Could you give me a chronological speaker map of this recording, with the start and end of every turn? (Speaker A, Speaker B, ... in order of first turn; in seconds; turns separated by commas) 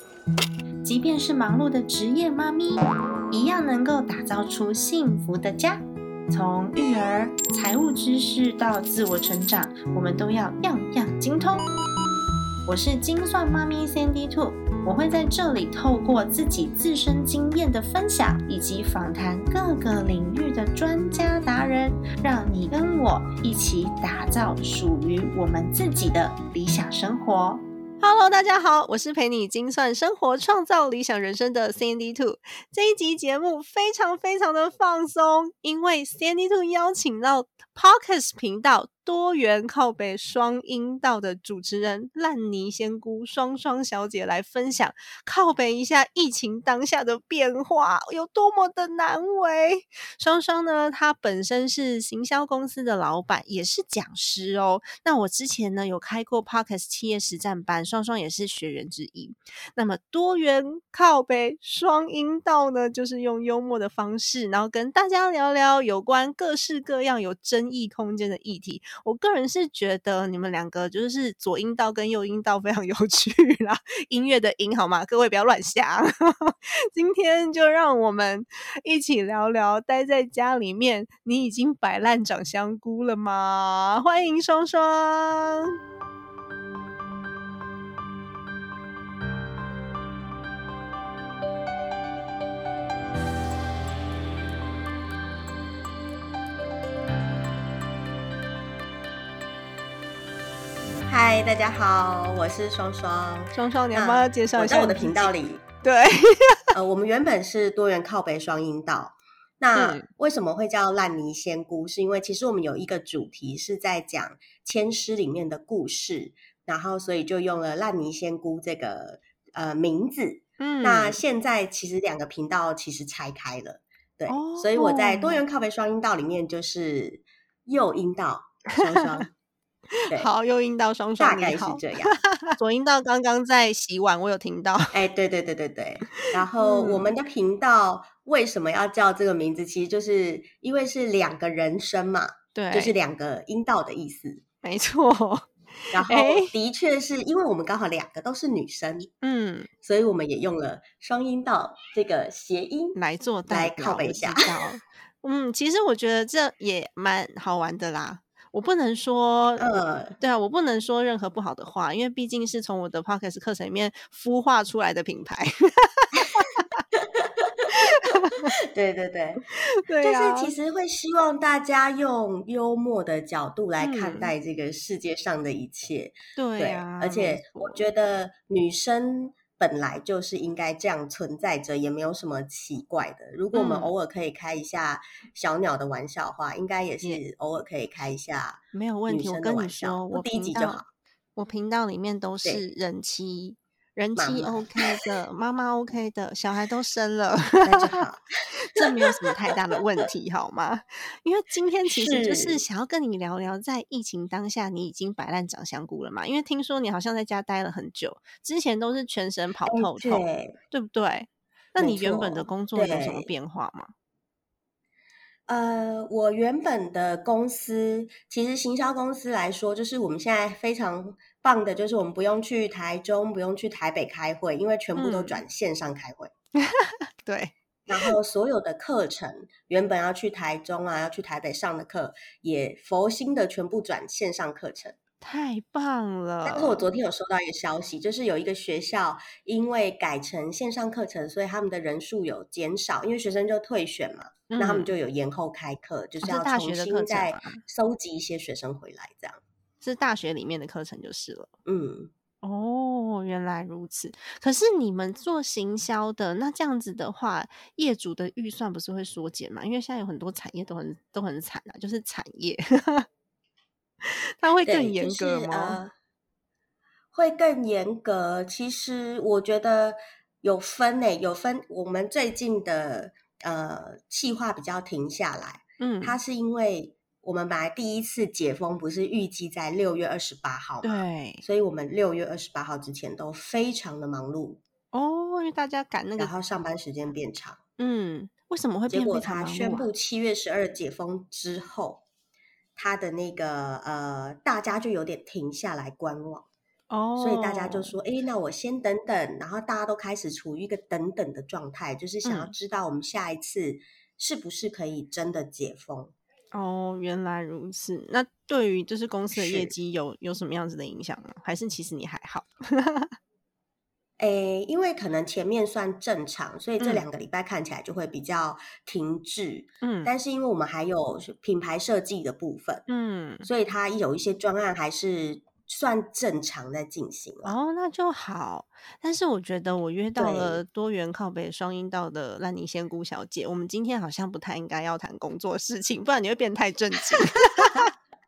Speaker A: 0.8-2.8, Speaker B: 0.9-2.5, Speaker A: 3.3-5.8, Speaker B: 4.1-4.8, Speaker B: 5.3-5.7, Speaker A: 6.3-11.6, Speaker B: 7.6-11.4, Speaker A: 12.7-27.4, Speaker B: 13.1-85.8, Speaker C: 101.1-105.7, Speaker B: 103.5-105.3, Speaker B: 105.8-106.7, Speaker C: 106.7-129.3, Speaker B: 109.8-110.1, Speaker B: 120.6-121.2, Speaker B: 124.3-125.4, Speaker B: 130.0-135.0, Speaker C: 131.2-132.2, Speaker C: 134.9-144.4, Speaker B: 136.1-137.1, Speaker B: 142.6-142.9, Speaker B: 144.6-146.5, Speaker C: 145.9-149.1, Speaker B: 149.2-149.7, Speaker C: 149.8-153.0, Speaker B: 152.9-166.8, Speaker C: 153.5-154.5, Speaker C: 159.6-160.2, Speaker C: 166.2-166.4, Speaker C: 166.9-169.5, Speaker B: 167.7-168.5, Speaker B: 169.5-170.5, Speaker C: 170.0-190.9, Speaker B: 173.8-174.3, Speaker B: 176.4-177.8, Speaker B: 183.5-183.9, Speaker B: 188.7-190.8, Speaker B: 191.4-198.0, Speaker C: 194.2-194.9, Speaker C: 197.6-199.8, Speaker B: 198.6-213.9, Speaker C: 201.9-202.6, Speaker C: 209.7-210.6, Speaker C: 211.8-213.3, Speaker C: 215.5-226.3, Speaker B: 225.0-225.4, Speaker B: 226.6-227.5, Speaker C: 227.9-235.0, Speaker B: 235.2-236.8, Speaker C: 236.4-249.4, Speaker B: 244.5-244.9, Speaker B: 246.2-247.6, Speaker B: 249.8-251.5, Speaker C: 251.7-252.1, Speaker B: 252.4-263.1, Speaker B: 264.0-265.8, Speaker C: 264.7-265.9, Speaker C: 267.1-284.6, Speaker B: 275.8-276.2, Speaker B: 280.8-281.4, Speaker B: 284.9-286.3, Speaker C: 286.2-287.6, Speaker B: 287.8-289.9, Speaker C: 288.9-292.0, Speaker C: 292.8-296.5, Speaker B: 296.9-297.9, Speaker C: 297.2-306.1, Speaker B: 302.2-302.5, Speaker B: 306.5-313.1, Speaker C: 309.3-309.7, Speaker C: 314.2-322.9, Speaker B: 316.8-317.1, Speaker B: 319.8-320.1, Speaker B: 322.9-323.5, Speaker C: 323.4-327.5, Speaker B: 327.4-337.9, Speaker C: 330.2-330.6, Speaker C: 337.1-337.9